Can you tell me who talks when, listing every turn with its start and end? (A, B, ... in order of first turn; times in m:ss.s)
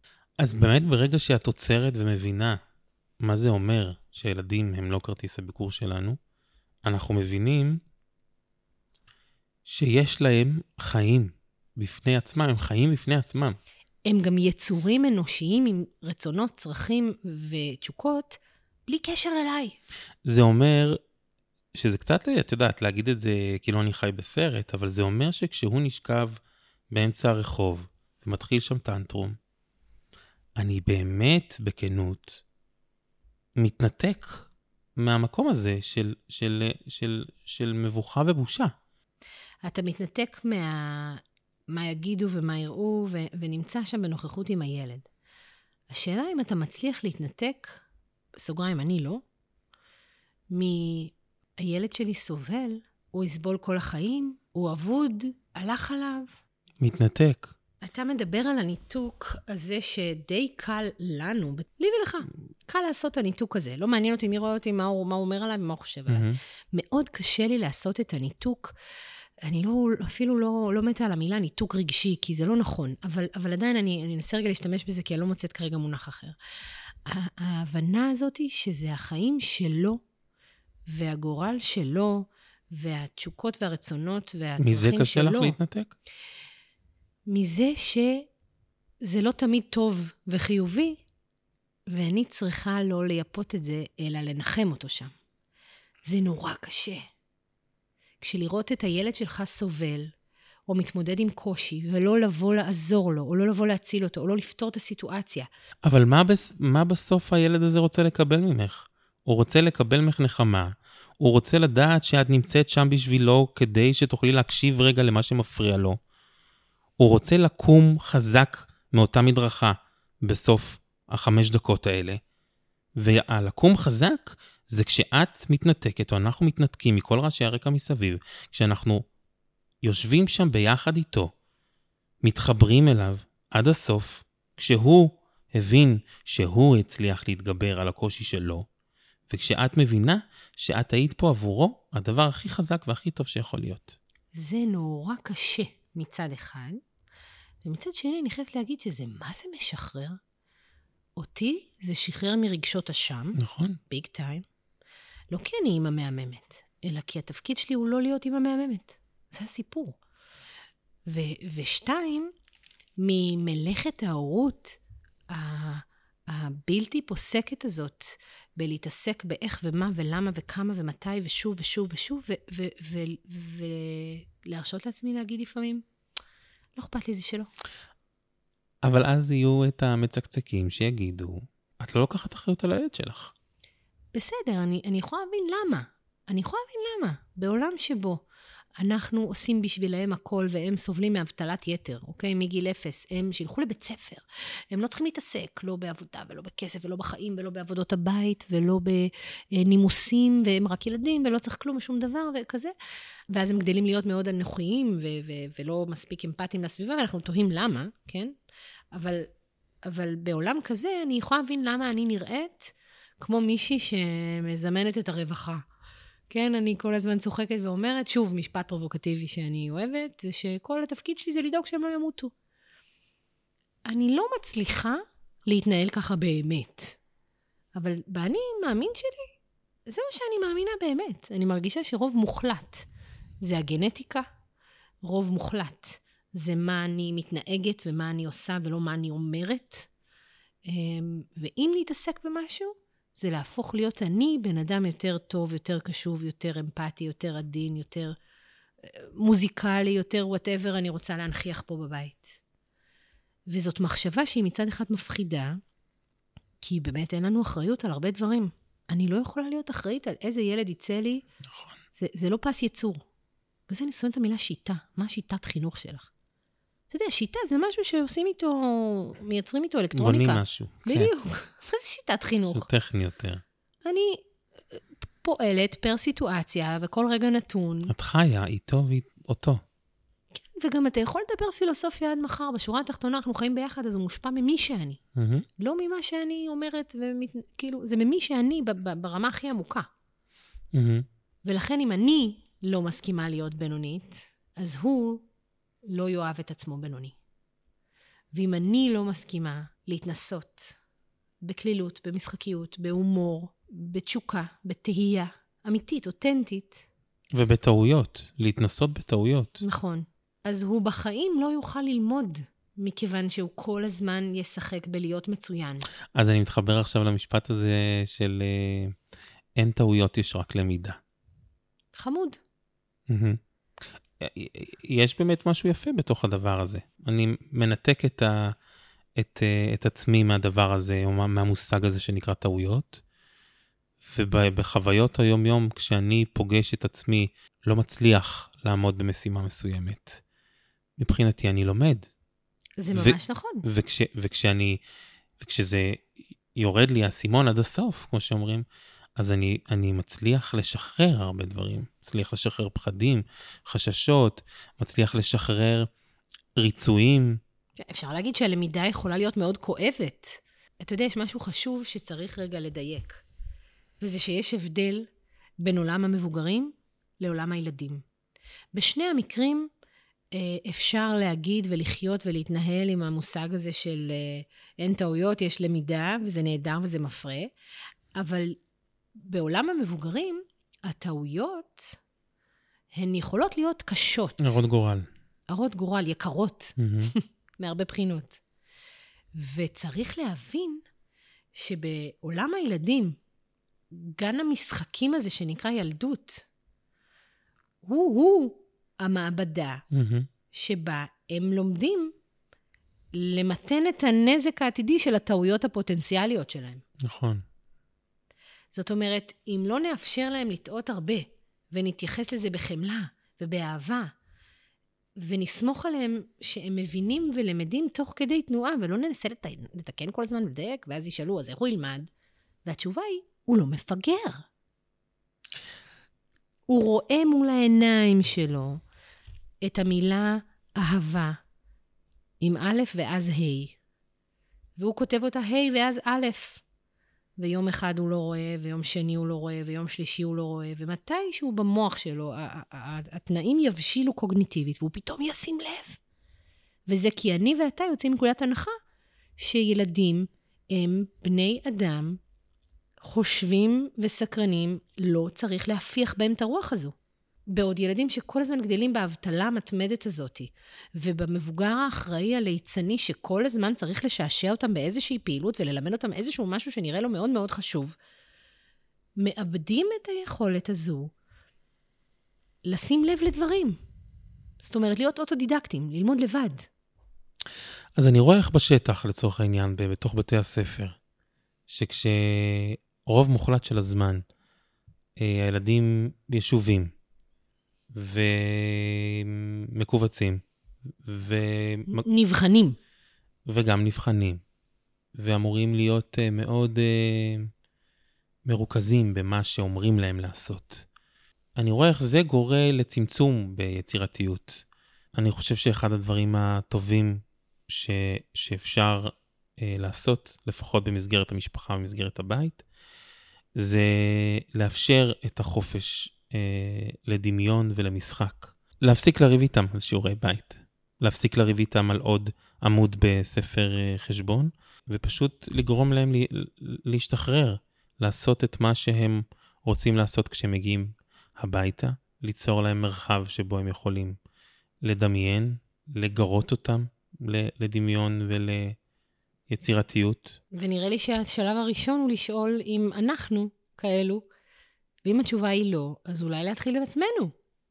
0:00.4-0:02.6 A
0:03.2-0:06.2 A
0:06.8-0:07.8 A
0:09.6-0:13.6 A
0:14.0-0:19.8 B
0:20.2-0:21.0 A
0:21.7-0:26.4 A
0:26.9-0:29.4 A
0:30.6-0:32.4 A
0:33.6-0:38.7 A
0:39.6-0:45.0 B
0:45.9-0:47.8 B
0:48.4-0:49.2 B
0:50.5-0:56.4 B
0:56.8-0:57.5 A
0:57.8-1:08.7 B
1:06.1-1:06.4 A
1:09.4-1:16.4 B
1:17.0-1:20.0 B
1:20.9-1:25.6 B
1:24.6-1:25.9 A
1:27.3-1:28.3 B
1:29.0-1:31.0 B
1:31.9-1:35.1 B
1:36.0-1:37.0 B
1:38.2-1:40.1 B
1:40.7-1:45.5 B
1:45.8-1:56.0 A
1:57.0-2:02.2 A
2:03.0-2:09.0 A
2:09.8-2:11.3 A
2:12.2-2:18.6 A
2:19.3-2:23.9 A
2:24.3-2:26.8 B
2:27.6-2:30.2 B
2:31.2-2:34.4 B
2:33.4-2:33.8 A
2:35.3-2:40.0 B
2:41.1-2:42.3 B
2:43.0-2:44.8 B
2:45.3-2:55.8 B
2:56.8-2:57.5 B
2:58.8-3:03.3 A
3:04.1-3:08.2 B
3:08.8-3:22.7 B
3:23.3-3:28.3 B
3:28.9-3:29.3 B
3:29.8-3:35.6 B
3:36.3-3:42.3 B
3:43.8-3:47.0 B
3:47.7-3:49.3 B
3:49.9-3:52.9 B
3:53.4-3:54.2 B
3:55.0-3:59.9 B
4:00.7-4:08.1 B
4:08.8-4:12.4 B
4:13.5-4:15.6 B
4:16.6-4:21.2 B
4:21.9-4:23.0 B
4:23.7-4:26.1 B
4:26.9-4:32.7 B
4:29.9-4:31.1 A
4:32.5-4:33.4 A
4:33.8-4:34.2 B
4:34.7-4:37.9 B
4:37.9-4:39.6 A
4:40.3-4:45.0 B
4:45.2-4:45.4 A
4:45.6-4:49.9 B
4:50.7-4:51.0 A
4:51.4-4:55.2 B
4:55.9-4:57.1 B
4:58.3-5:00.8 B
5:01.4-5:06.8 B
5:07.3-5:09.6 A
5:09.6-5:15.9 B
5:16.1-5:18.9 A
5:19.6-5:21.0 A
5:21.9-5:22.4 B
5:23.1-5:23.4 A
5:24.2-5:28.5 A
5:29.2-5:33.0 A
5:34.0-5:40.2 A
5:41.0-5:42.1 A
5:42.8-5:43.6 B
5:42.9-5:44.8 A
5:45.4-5:46.0 A
5:46.5-5:48.6 A
5:49.2-5:55.9 A
5:56.6-5:57.4 A
5:57.8-6:03.2 B
6:04.0-6:05.1 B
6:05.6-6:08.0 B
6:08.7-6:09.7 B
6:10.3-6:17.5 B
6:18.2-6:18.6 B
6:19.2-6:22.0 B
6:22.9-6:24.6 B
6:24.4-6:25.1 A
6:25.5-6:28.4 B
6:26.8-6:27.1 A
6:29.3-6:30.8 B
6:31.5-6:33.1 B
6:33.9-6:36.5 B
6:37.8-6:39.8 B
6:39.9-6:40.3 A
6:40.5-6:42.1 B
6:43.1-6:46.8 B
6:47.0-6:47.4 A
6:48.7-6:54.1 B
6:55.2-7:02.1 B
7:02.6-7:04.5 B
7:06.7-7:08.8 B
7:09.6-7:11.4 B
7:12.4-7:13.8 B
7:14.8-7:16.6 B
7:17.4-7:26.0 B
7:26.9-7:28.7 B
7:29.4-7:32.2 B
7:33.0-7:36.9 B
7:37.5-7:48.0 B
7:49.2-7:51.1 B
7:52.6-7:53.8 B
7:54.6-7:56.7 B
7:58.0-8:01.0 A
8:01.7-8:04.2 A
8:05.2-8:06.9 A
8:07.9-8:10.4 A
8:11.0-8:12.0 A
8:11.9-8:12.8 B
8:13.5-8:14.4 A
8:15.2-8:17.5 A
8:18.4-8:20.8 A
8:21.6-8:32.6 A
8:33.6-8:54.2 A
8:54.8-8:58.8 A
8:59.5-9:00.4 A
9:00.5-9:04.2 B
9:05.0-9:07.3 B